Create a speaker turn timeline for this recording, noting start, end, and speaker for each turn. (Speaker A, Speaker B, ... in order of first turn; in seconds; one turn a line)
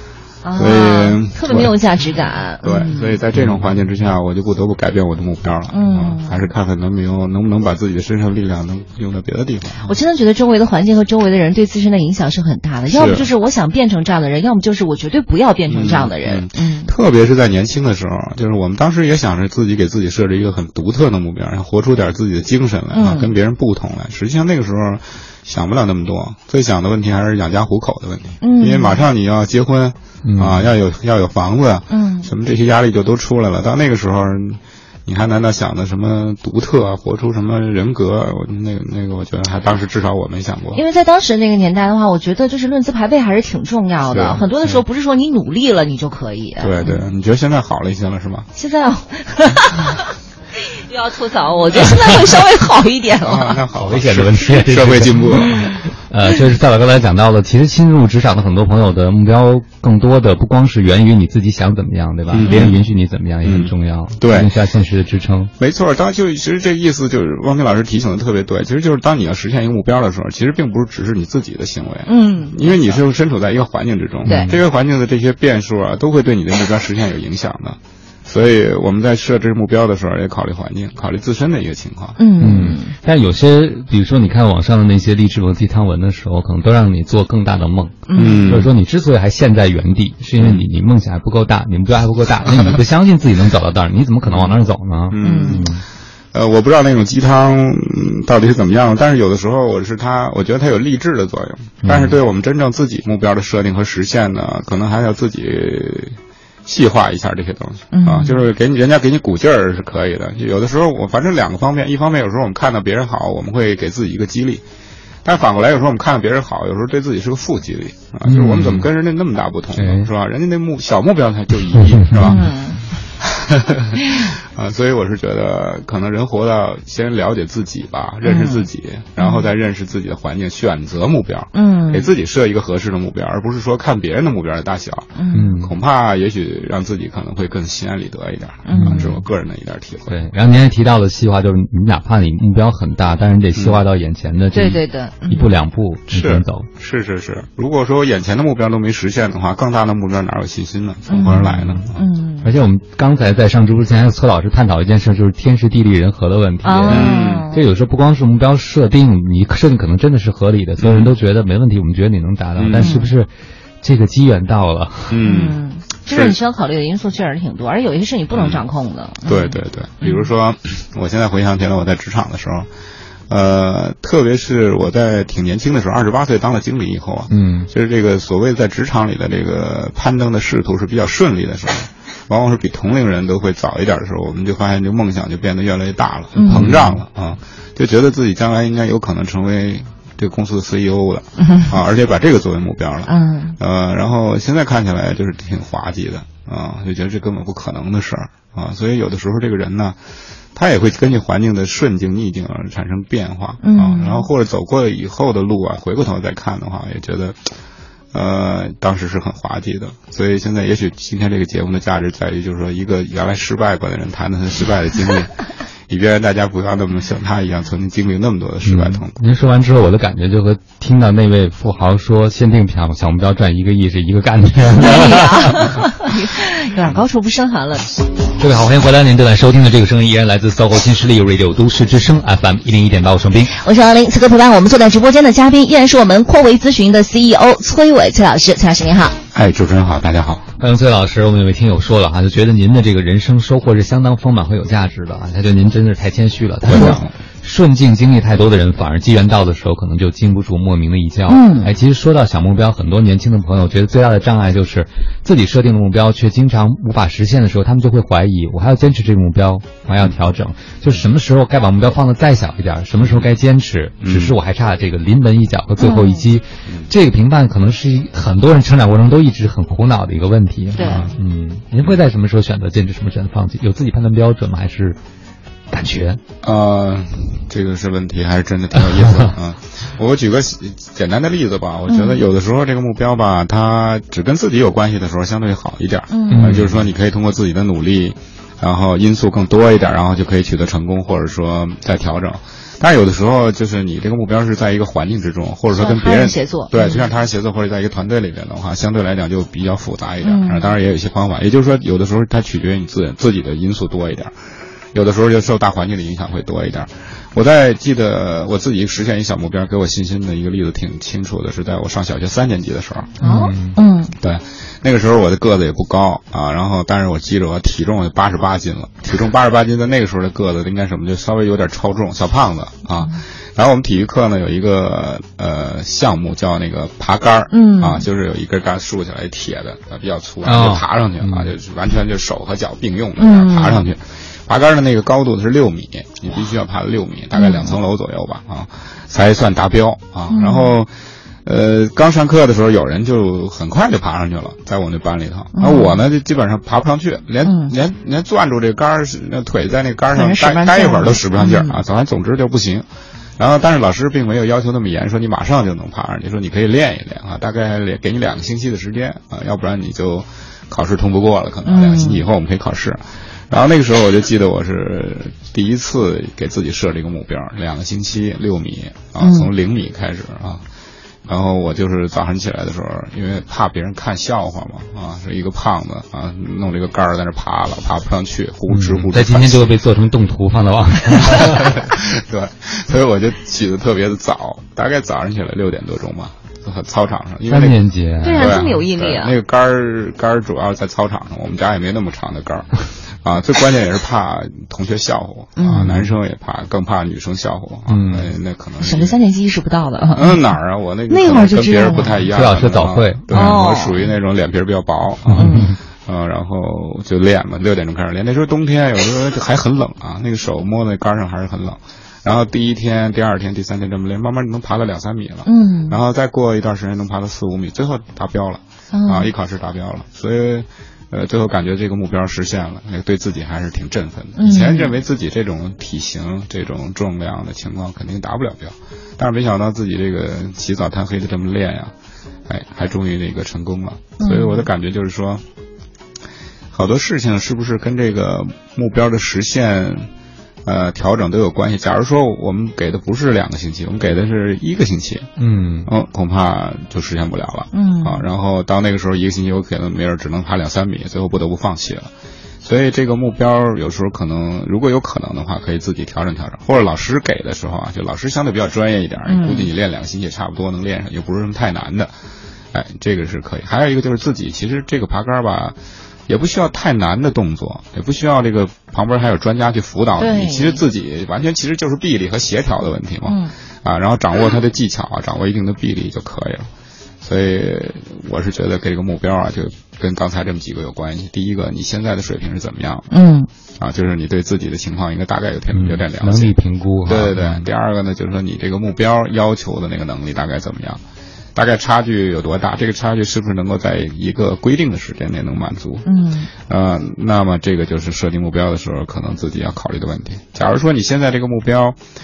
Speaker A: 0.4-3.2
Speaker B: 0.5-1.7
Speaker B: 2.6-9.9
Speaker C: 3.3-3.6
Speaker A: 5.7-6.5
Speaker A: 9.8-16.9
Speaker B: 12.9-13.3
Speaker B: 15.7-40.8
Speaker A: 22.9-23.3
Speaker A: 28.4-29.0
Speaker C: 30.2-30.7
Speaker A: 31.9-32.3
Speaker A: 40.7-47.0
Speaker B: 44.1-44.5
Speaker B: 46.6-48.5
Speaker A: 48.5-53.6
Speaker B: 53.2-55.7
Speaker C: 53.8-65.5
Speaker B: 62.3-62.8
Speaker A: 62.4-62.7
Speaker B: 63.4-64.5
Speaker B: 65.6-82.2
Speaker A: 72.1-72.9
Speaker C: 74.2-74.6
Speaker A: 82.2-82.9
Speaker C: 82.4-95.8
Speaker A: 88.1-88.5
Speaker B: 88.1-88.7
Speaker B: 90.4-90.6
Speaker B: 94.2-94.6
Speaker B: 95.1-95.7
Speaker A: 95.2-95.7
Speaker B: 96.3-114.6
Speaker C: 101.8-102.2
Speaker A: 107.9-108.4
Speaker B: 115.2-122.5
Speaker C: 118.2-118.9
Speaker C: 119.7-120.1
Speaker C: 122.0-122.3
Speaker A: 122.2-122.8
Speaker B: 123.2-140.2
Speaker A: 128.2-128.7
Speaker A: 129.2-129.5
Speaker A: 131.5-132.1
Speaker A: 135.2-135.6
Speaker C: 135.3-135.8
Speaker A: 138.6-139.1
Speaker C: 138.7-139.2
Speaker C: 140.1-146.7
Speaker B: 143.5-143.8
Speaker A: 144.5-145.5
Speaker B: 146.1-152.0
Speaker A: 151.1-151.4
Speaker C: 151.2-151.8
Speaker A: 151.9-152.5
Speaker C: 152.4-163.3
Speaker A: 156.6-157.6
Speaker B: 156.9-157.5
Speaker B: 160.8-161.1
Speaker B: 162.6-163.0
Speaker A: 162.8-163.1
Speaker C: 163.8-165.2
Speaker B: 165.1-166.4
Speaker A: 165.2-170.2
Speaker B: 168.3-168.6
Speaker B: 169.2-172.7
Speaker B: 173.3-200.0
Speaker C: 177.3-177.7
Speaker A: 186.4-186.7
Speaker C: 186.4-187.0
Speaker A: 191.4-191.7
Speaker A: 193.1-193.6
Speaker B: 200.5-207.5
Speaker A: 203.6-204.3
Speaker B: 208.1-219.2
Speaker C: 218.6-225.5
Speaker A: 224.7-227.9
Speaker C: 228.4-233.5
Speaker A: 233.5-239.2
Speaker B: 239.3-240.4
Speaker C: 240.6-275.0
Speaker B: 246.6-247.1
Speaker A: 251.3-251.7
Speaker B: 263.0-263.3
Speaker B: 264.0-264.4
Speaker A: 265.8-266.3
Speaker A: 270.7-271.1
Speaker B: 270.8-271.1
Speaker C: 275.7-276.2
Speaker B: 276.4-304.3
Speaker A: 281.9-282.2
Speaker A: 286.1-286.5
Speaker C: 286.3-286.8
Speaker A: 295.7-297.1
Speaker A: 300.2-300.8
Speaker B: 304.9-313.2
Speaker A: 313.2-314.1
Speaker C: 313.2-313.8
Speaker B: 314.2-340.9
Speaker A: 327.5-328.1
Speaker C: 330.4-331.5
Speaker A: 333.2-333.8
Speaker A: 337.3-337.8
Speaker A: 340.3-340.7
Speaker B: 341.4-352.9
Speaker A: 345.5-346.0
Speaker A: 347.4-347.7
Speaker A: 350.1-351.8
Speaker B: 353.4-370.6
Speaker A: 361.6-362.2
Speaker A: 369.2-369.5
Speaker B: 371.2-379.7
Speaker C: 378.7-381.9
Speaker B: 381.3-399.1
Speaker C: 387.5-388.7
Speaker A: 388.2-389.3
Speaker A: 395.6-396.1
Speaker C: 395.7-395.9
Speaker C: 397.9-398.3
Speaker A: 398.8-400.4
Speaker B: 400.1-431.9
Speaker A: 401.1-402.2
Speaker C: 402.3-403.6
Speaker A: 403.3-404.1
Speaker C: 405.2-405.8
Speaker A: 405.4-405.7
Speaker A: 415.4-416.0
Speaker A: 418.9-419.3
Speaker A: 424.4-424.9
Speaker B: 432.5-435.4
Speaker A: 434.2-434.7
Speaker B: 436.7-440.1
Speaker B: 440.6-445.3
Speaker C: 445.4-445.9
Speaker B: 445.8-452.1
Speaker A: 447.7-448.3
Speaker B: 452.6-462.1
Speaker A: 459.2-459.7
Speaker B: 462.7-465.8
Speaker B: 466.3-476.7
Speaker A: 470.2-470.8
Speaker A: 473.3-473.5
Speaker B: 477.2-483.1
Speaker A: 483.1-483.5
Speaker B: 483.8-486.5
Speaker C: 485.7-487.7
Speaker B: 487.1-491.0
Speaker B: 491.5-496.1
Speaker A: 496.0-496.5
Speaker B: 496.7-502.0